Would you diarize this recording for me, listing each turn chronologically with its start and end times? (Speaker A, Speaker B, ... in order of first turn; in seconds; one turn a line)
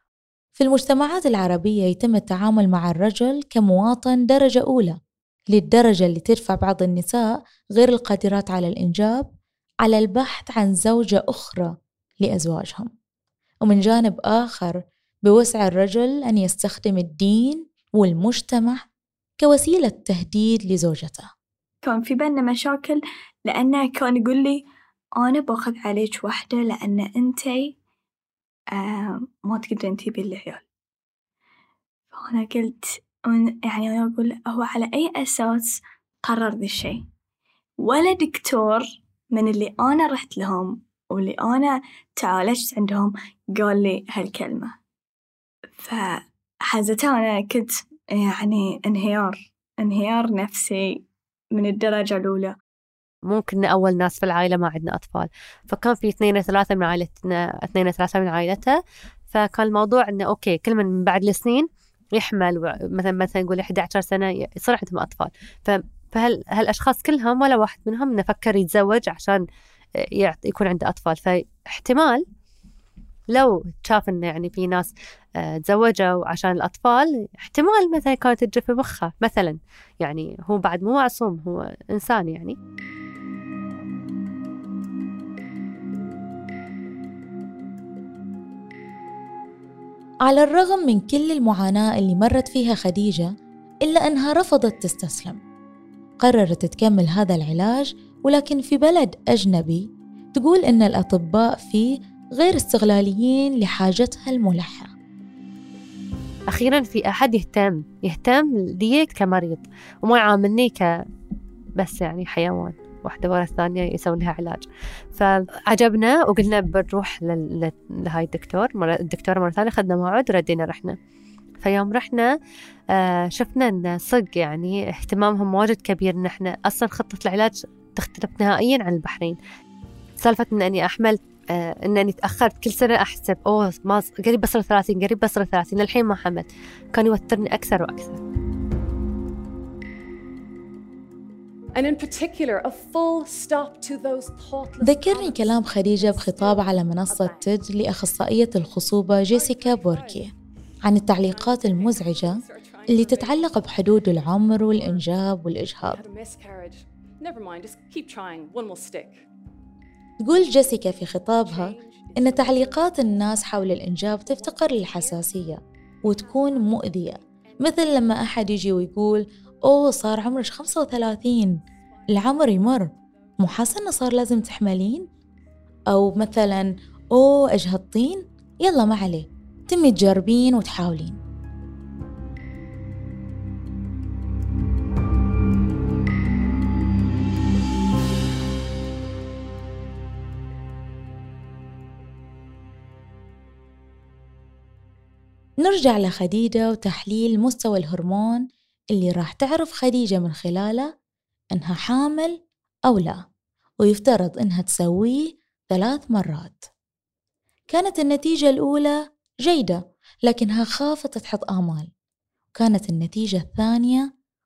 Speaker A: 0.6-4.9
Speaker A: 5.5-9.3
Speaker A: 9.8-12.9
Speaker A: 13.6-18.9
Speaker A: 19.4-21.3
Speaker B: 21.8-24.6
Speaker B: 25.2-27.7
Speaker B: 28.7-30.6
Speaker B: 32.1-37.0
Speaker B: 37.8-44.7
Speaker B: 45.8-51.0
Speaker B: 51.5-52.5
Speaker C: 53.3-58.8
Speaker C: 59.3-69.4
Speaker C: 70.0-72.2
Speaker C: 73.3-82.5
Speaker A: 90.2-93.3
Speaker A: 93.8-95.4
Speaker A: 96.2-104.9
Speaker C: 106.5-110.8
Speaker C: 111.8-121.0
Speaker C: 121.6-122.3
Speaker C: 122.9-129.4
Speaker C: 130.2-138.2
Speaker D: 141.7-147.6
Speaker A: 144.8-150.3
Speaker D: 148.6-150.3
Speaker A: 150.8-152.3
Speaker D: 151.2-155.1
Speaker A: 152.9-156.0
Speaker D: 155.9-159.2
Speaker A: 160.2-171.6
Speaker D: 161.3-168.4
Speaker D: 170.1-174.0
Speaker A: 172.1-175.0
Speaker A: 175.9-181.2
Speaker A: 195.6-200.9
Speaker A: 201.5-203.2
Speaker A: 203.8-206.6
Speaker A: 207.7-211.9
Speaker A: 212.6-214.1